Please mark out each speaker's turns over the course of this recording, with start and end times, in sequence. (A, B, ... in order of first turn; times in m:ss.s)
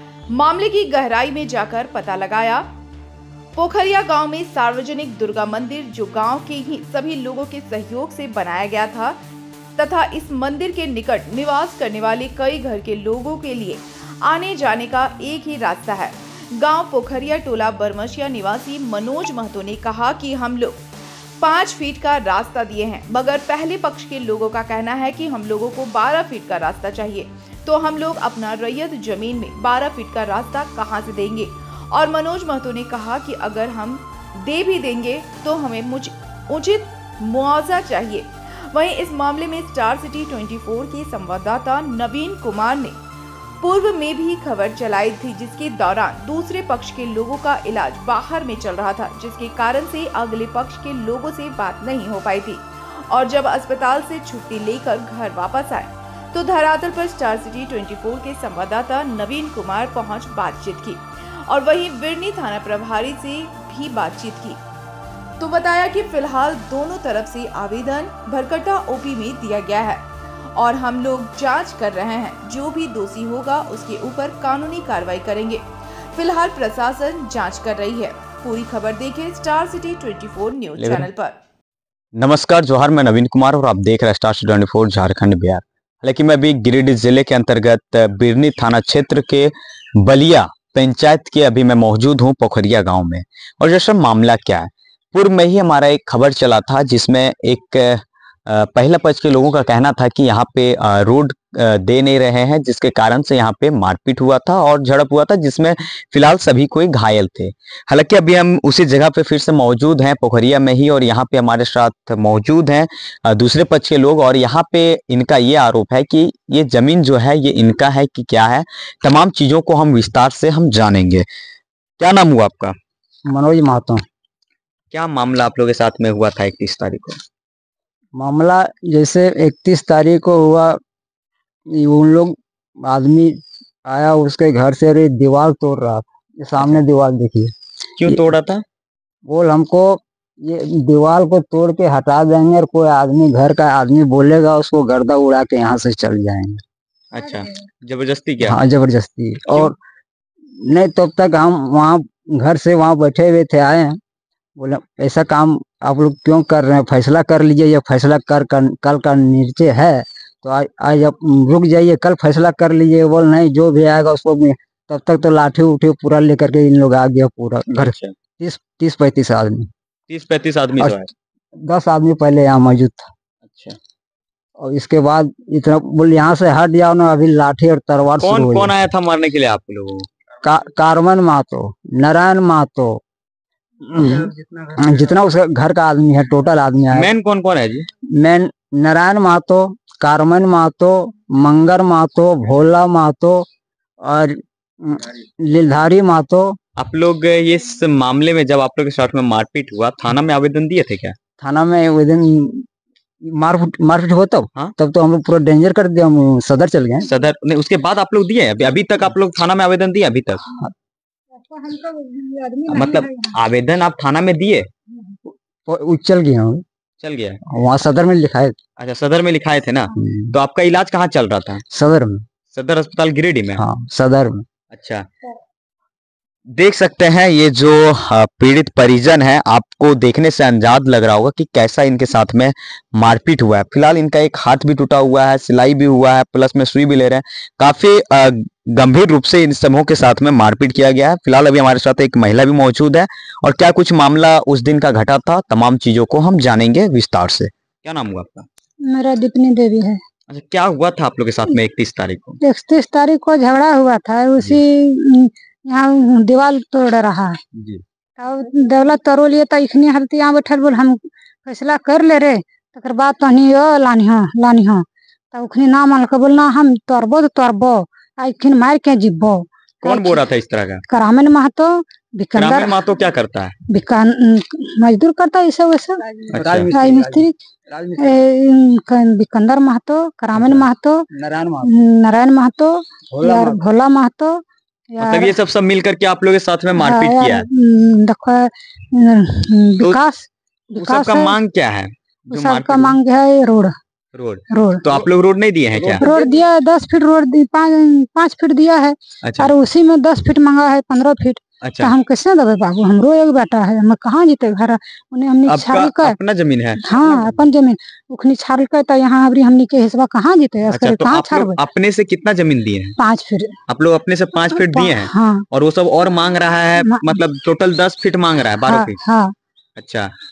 0:00.3-0:02.7 A
0:03.6-0:09.2 A
0:09.8-0:20.8 A
0:21.4-0:43.0 A
0:43.6-1:04.6 A
1:05.4-1:10.0 A
1:10.6-1:21.4 A
1:20.8-1:21.1 B
1:22.2-2:01.3 B
2:02.0-2:02.8 B
2:03.3-2:04.0 C
2:04.9-2:07.2 B
2:08.2-2:10.8 C
2:11.7-2:17.5 C
2:18.0-2:18.6 B
2:19.3-2:26.6 C
2:27.1-2:28.6 B
2:28.4-2:29.8 C
2:30.6-2:34.0 C
2:34.6-2:49.7 C
2:47.8-2:48.1 B
2:50.1-2:51.1 B
2:51.6-2:53.1 C
2:53.4-2:53.8 B
2:54.6-2:58.7 C
2:58.2-3:00.0 B
3:00.4-3:03.0 C
3:03.9-3:07.1 C
3:06.9-3:07.9 B
3:08.2-3:13.5 C
3:14.0-3:16.6 C
3:16.8-3:21.2 B
3:21.4-3:22.6 C
3:23.3-3:27.1 C
3:27.1-3:30.4 B
3:31.4-3:33.3 D
3:32.7-3:34.7 B
3:35.7-3:36.6 C
3:37.0-3:37.4 B
3:37.5-3:38.6 C
3:38.8-3:41.6 B
3:40.0-3:40.3 C
3:41.7-3:42.2 C
3:42.5-3:43.6 B
3:43.6-3:44.4 C
3:44.7-3:45.0 B
3:46.6-4:08.4 B
4:08.9-4:10.0 D
4:10.3-4:12.4 B
4:12.4-4:17.4 D
4:17.6-4:17.8 B
4:18.2-4:30.2 D
4:29.8-4:30.8 B
4:30.9-4:32.8 D
4:32.4-4:33.6 B
4:33.7-4:36.0 D
4:36.1-4:38.2 C
4:36.3-4:36.7 B
4:36.7-4:37.3 D
4:38.0-4:41.1 D
4:41.1-4:41.7 C
4:41.6-4:45.4 D
4:43.1-4:43.6 C
4:45.0-4:47.4 B
4:46.8-4:51.4 D
4:50.8-4:53.0 B
4:52.3-4:53.7 D
4:54.1-4:56.0 B
4:54.5-4:55.0 D
4:56.0-5:06.2 D
4:59.2-4:59.5 B
5:01.6-5:01.9 B
5:05.5-5:07.4 B
5:06.8-5:11.6 D
5:10.7-5:13.0 B
5:13.0-5:13.6 D
5:13.7-5:19.0 B
5:14.5-5:15.4 D
5:16.8-5:17.1 D
5:18.7-5:19.3 D
5:19.8-5:20.1 B